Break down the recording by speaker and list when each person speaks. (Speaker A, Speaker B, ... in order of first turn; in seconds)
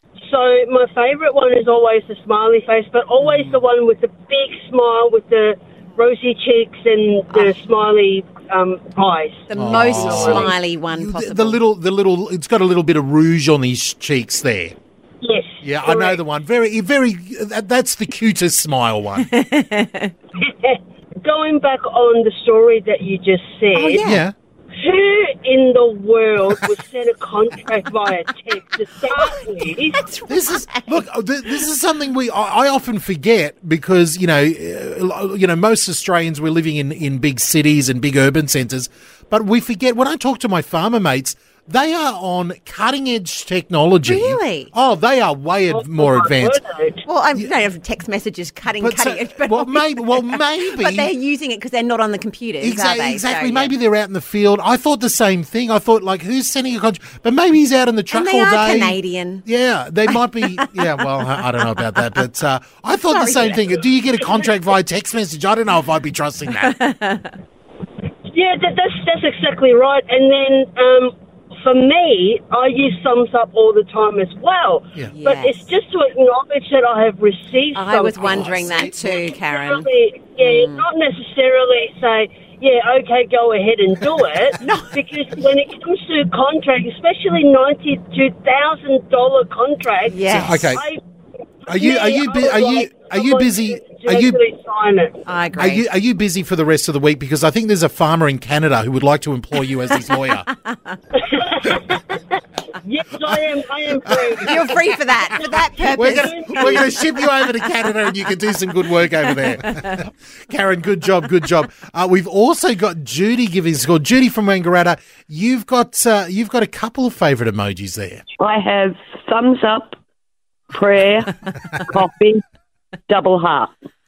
Speaker A: 0.2-10.5, 15.2-16.2, 20.4-24.1, 24.8-30.1, 45.7-47.0, 68.3-78.5, 79.3-91.0, 91.7-95.2, 101.2-102.2, 102.8-104.8, 105.3-107.0
Speaker B: 9.5-11.6, 19.2-20.1, 23.7-24.2, 29.1-31.6, 44.0-44.7, 47.1-53.7, 58.1-59.4, 60.1-61.0, 61.7-62.0, 63.1-63.8, 66.6-67.3, 75.1-75.7, 77.7-80.9, 84.6-85.0, 90.1-90.7, 95.3-95.8, 100.0-101.0, 104.4-107.0, 109.4-110.0
Speaker C: 9.5-14.8, 15.6-19.3, 24.0-24.3, 30.3-46.6, 48.7-51.1, 52.6-66.8, 78.2-79.1, 90.3-90.8, 91.7-94.4, 95.6-100.5, 104.0-104.7, 105.9-118.2
Speaker D: 118.4-120.0, 120.7-122.4, 123.1-123.7